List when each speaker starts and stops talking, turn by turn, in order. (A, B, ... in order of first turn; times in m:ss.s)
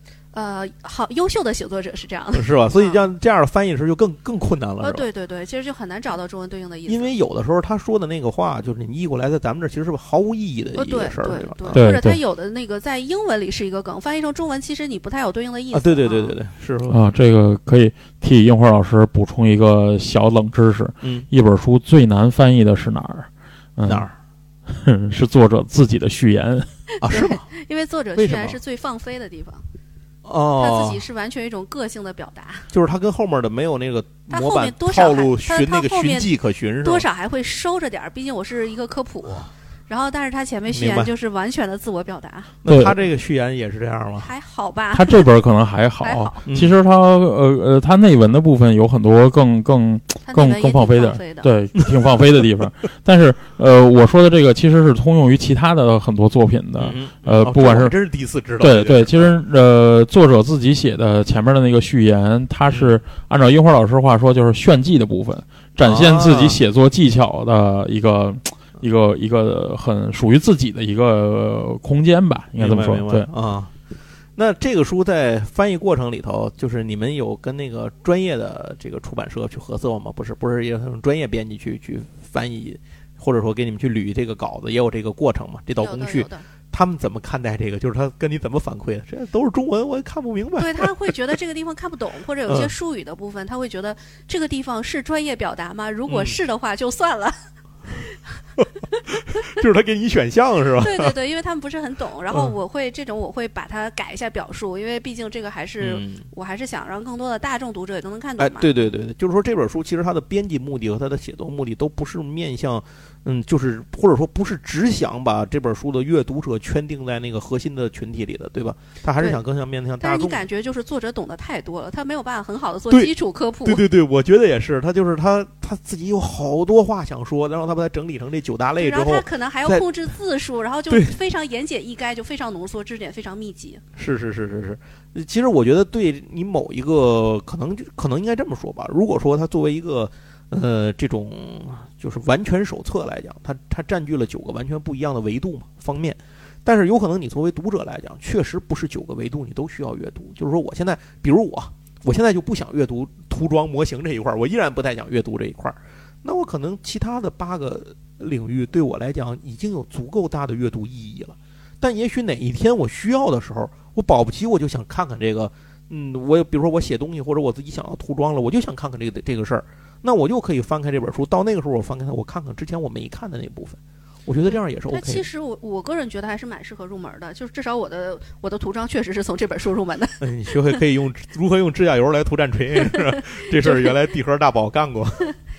0:00.3-0:03.1 A
0:02.3-0:05.0 B
0:04.8-0:07.1 A
0:06.9-0:11.8 B
0:10.8-0:16.3 A
0:11.7-0:12.2 C
0:15.7-0:17.0 B
0:16.9-0:24.1 C
0:21.0-0:21.3 B
0:23.8-0:24.1 B
0:24.7-0:26.7 C
0:27.0-0:27.5 B
0:27.0-0:29.6 A
0:28.2-0:28.6 B
0:30.2-0:31.0 B
0:30.6-0:32.7 A
0:32.7-0:37.0 B
0:34.3-0:42.5 A
0:40.7-0:41.1 B
0:42.6-0:44.3 B
0:42.7-0:42.9 C
0:44.2-0:45.2 A
0:44.9-0:57.9 C
0:46.0-0:46.4 A
0:46.4-0:46.8 B
0:50.2-0:51.5 A
0:56.8-0:59.4 B
0:58.6-1:13.3 C
1:02.7-1:03.0 B
1:05.8-1:06.6 B
1:12.6-1:13.7 B
1:14.4-1:31.1 B
1:25.8-1:26.4 A
1:30.6-1:37.3 A
1:36.1-1:36.4 B
1:38.6-1:41.1 B
1:40.8-1:48.7 A
1:45.8-1:46.2 B
1:48.4-2:00.4 B
2:00.0-2:03.8 A
2:03.6-2:09.9 B
2:08.8-2:13.8 A
2:10.9-2:11.1 B
2:14.0-2:55.2 B
2:54.5-3:00.7 A
3:00.2-3:05.2 B
3:03.6-3:03.9 A